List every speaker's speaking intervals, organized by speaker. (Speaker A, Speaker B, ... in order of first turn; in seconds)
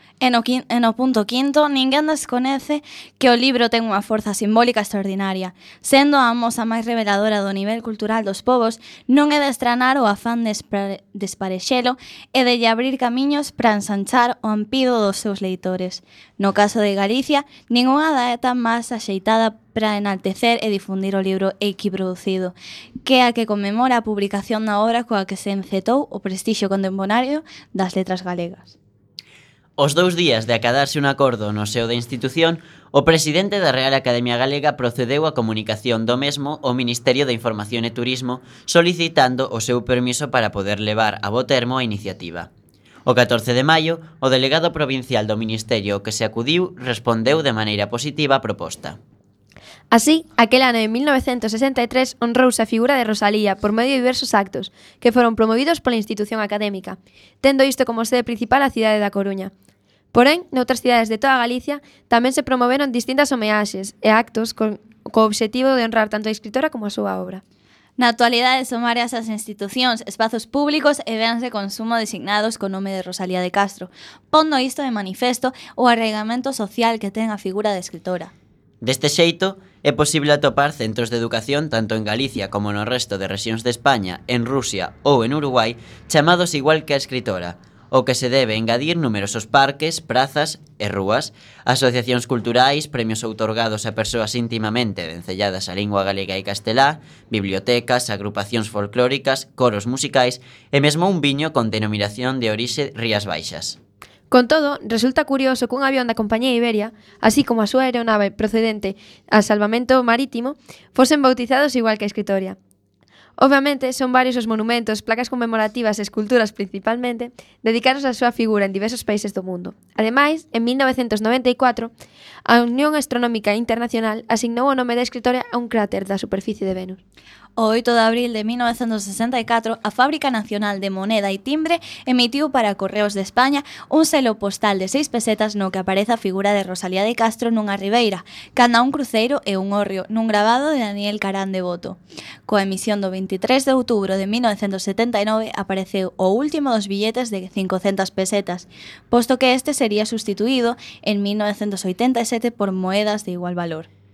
Speaker A: 0.2-28.7, 68.0-78.3, 127.6-153.9
Speaker B: 29.8-42.5, 43.0-49.0, 78.8-103.8
Speaker C: 49.9-59.5, 60.1-67.4, 104.3-112.6, 113.4-121.9, 122.4-127.0